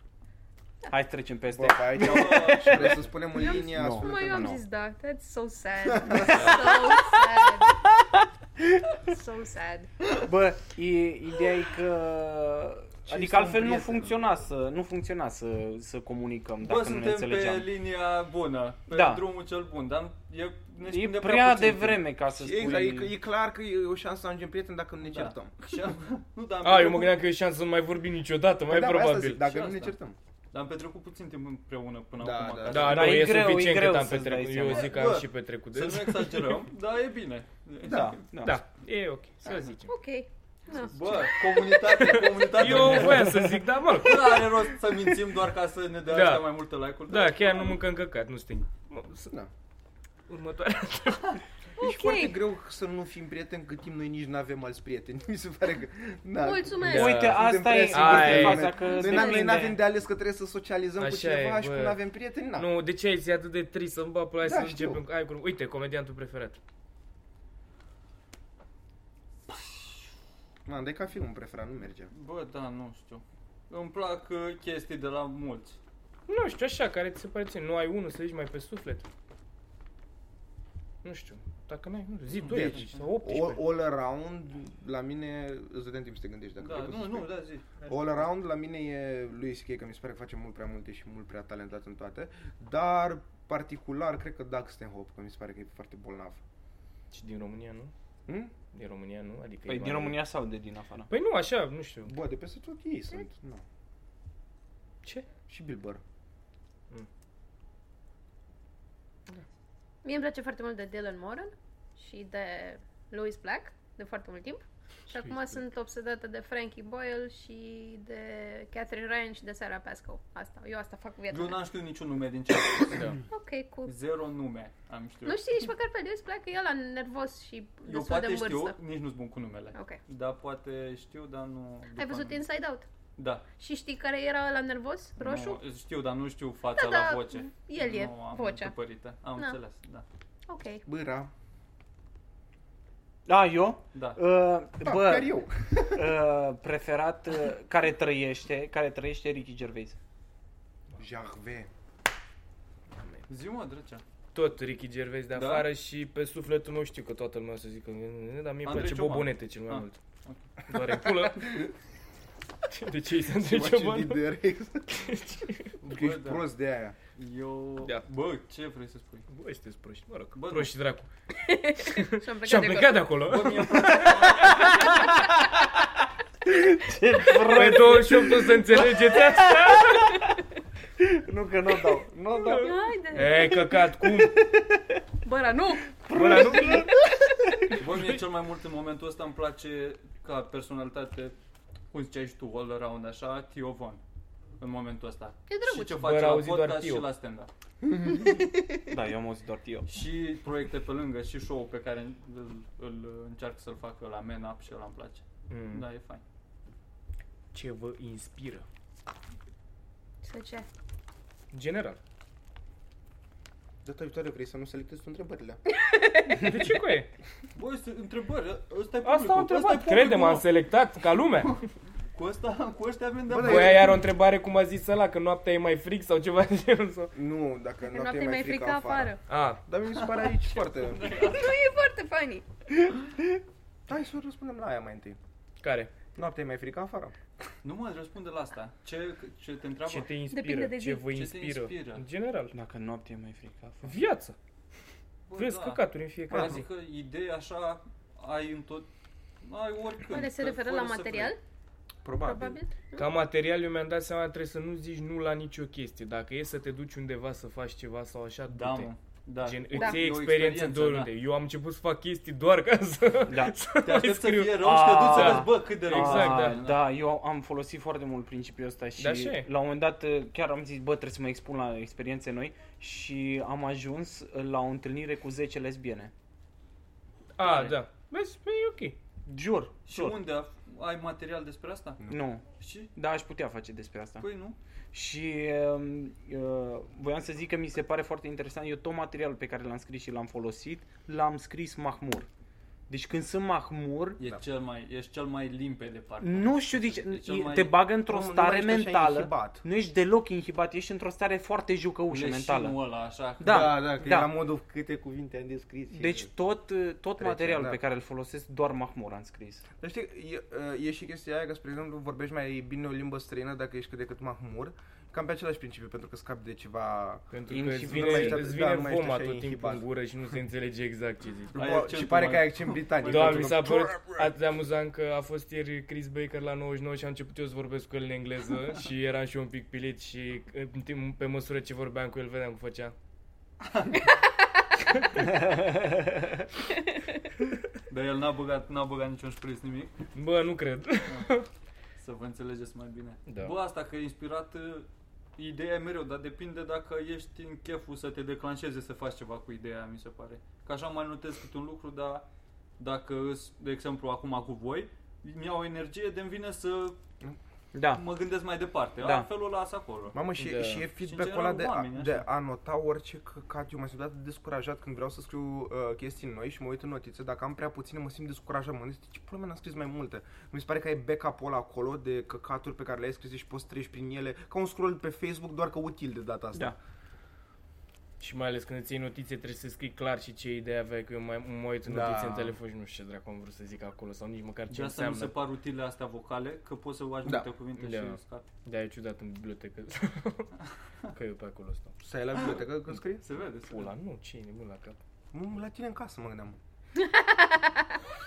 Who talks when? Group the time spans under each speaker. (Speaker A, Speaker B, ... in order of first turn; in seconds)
Speaker A: 0.9-4.6, 6.1-7.2, 10.2-17.7, 18.9-19.2, 20.9-23.1, 32.9-35.2, 37.9-38.6, 42.7-43.6, 56.8-59.8, 99.7-101.1, 143.3-150.0, 176.4-180.2, 181.0-182.8, 183.7-185.0, 186.0-187.7, 198.9-199.9, 242.5-244.0, 263.3-263.6, 264.6-276.1, 279.3-280.2, 282.1-284.3, 284.9-292.3, 292.9-294.2, 296.2-302.8, 303.4-304.3, 305.9-309.6, 317.5-318.5, 357.7-358.0, 359.0-359.3
Speaker B: 1.5-4.6, 6.0-6.4, 13.1-14.2, 22.3-25.5, 28.7-30.2, 32.2-33.2, 37.9-38.2, 51.8-62.7, 64.4-65.0, 70.7-72.1, 82.4-87.3, 87.9-96.4, 98.3-98.5, 102.1-103.6, 105.5-106.0, 140.8-141.3, 144.8-146.0, 151.0-151.7, 163.4-165.2, 165.8-166.9, 213.8-215.6, 223.3-224.0, 227.1-231.1, 233.9-235.2, 236.2-237.2, 252.0-252.6, 298.1-299.6, 303.4-306.3, 307.2-307.8, 309.8-319.9, 321.5-324.3, 360.1-376.8, 381.9-382.6, 392.0-393.2, 395.3-396.6
Speaker C: 2.0-3.0, 16.6-22.0, 25.0-27.2, 29.5-29.9, 30.5-33.3, 34.7-38.2, 40.7-47.8, 72.1-75.8, 82.3-83.0, 86.6-88.3, 121.3-123.1, 123.8-125.5, 127.9-132.4, 133.2-133.4, 135.2-140.1, 143.9-144.2, 153.3-154.0, 155.3-155.7, 158.6-160.4, 165.8-166.4, 167.2-169.3, 170.3-170.7, 173.2-175.0, 187.8-191.3, 191.9-194.0, 194.6-197.5, 199.9-206.2, 217.6-220.5, 222.1-224.0, 230.1-231.6, 237.6-240.1, 241.1-242.1, 245.3-248.9, 249.4-251.3, 258.5-261.1, 263.8-266.8, 277.4-277.8, 279.9-282.0, 282.6-282.9, 284.2-284.6, 294.2-297.8, 302.1-303.9, 321.5-323.6, 333.7-334.0, 337.9-340.0, 342.0-352.3, 352.8-357.0, 357.9-360.2, 361.0-362.3, 384.7-388.5, 392.4-392.6, 393.2-393.9
Speaker D: 3.3-7.8, 9.1-9.9, 39.9-41.3, 51.8-52.4, 56.4-57.2, 58.8-59.6, 110.0-121.6, 123.3-123.9, 125.2-128.8, 132.0-132.9, 133.6-135.6, 136.8-138.7, 140.5-140.8, 171.4-173.1, 174.7-175.0, 182.4-183.6, 185.2-186.7, 195.5-196.0, 210.2-210.7, 215.8-216.7, 227.9-229.2, 231.2-232.4, 240.3-241.1, 250.1-251.4, 252.2-253.2, 259.8-260.0, 397.0-397.8
Speaker E: 26.6-29.5, 32.7-36.5, 38.4-39.9, 41.9-44.5, 46.1-46.5, 47.1-49.3, 50.3-51.4, 56.9-58.8, 61.0-62.0, 62.5-66.6, 76.3-79.1, 81.0-83.7, 97.1-97.9, 98.7-100.2, 101.1-102.1, 115.1-115.6, 154.3-160.0, 160.7-161.7, 162.7-164.2, 164.9-165.8, 169.3-171.1, 171.8-174.7, 177.4-180.2, 182.4-184.5, 186.1-186.9, 187.7-188.1, 195.9-197.1, 205.5-205.8, 207.5-208.7, 211.5-212.0, 216.3-217.1, 219.0-221.6, 223.4-227.1, 229.3-229.6, 235.6-235.9, 239.8-242.6, 243.8-244.4, 245.4-246.7, 253.0-266.6, 269.0-269.5, 277.4-279.0, 317.3-321.8, 323.1-332.9, 340.1-341.5, 343.3-343.5, 360.4-360.9, 378.2-385.3, 387.8-390.5, 391.1-392.0, 393.6-395.0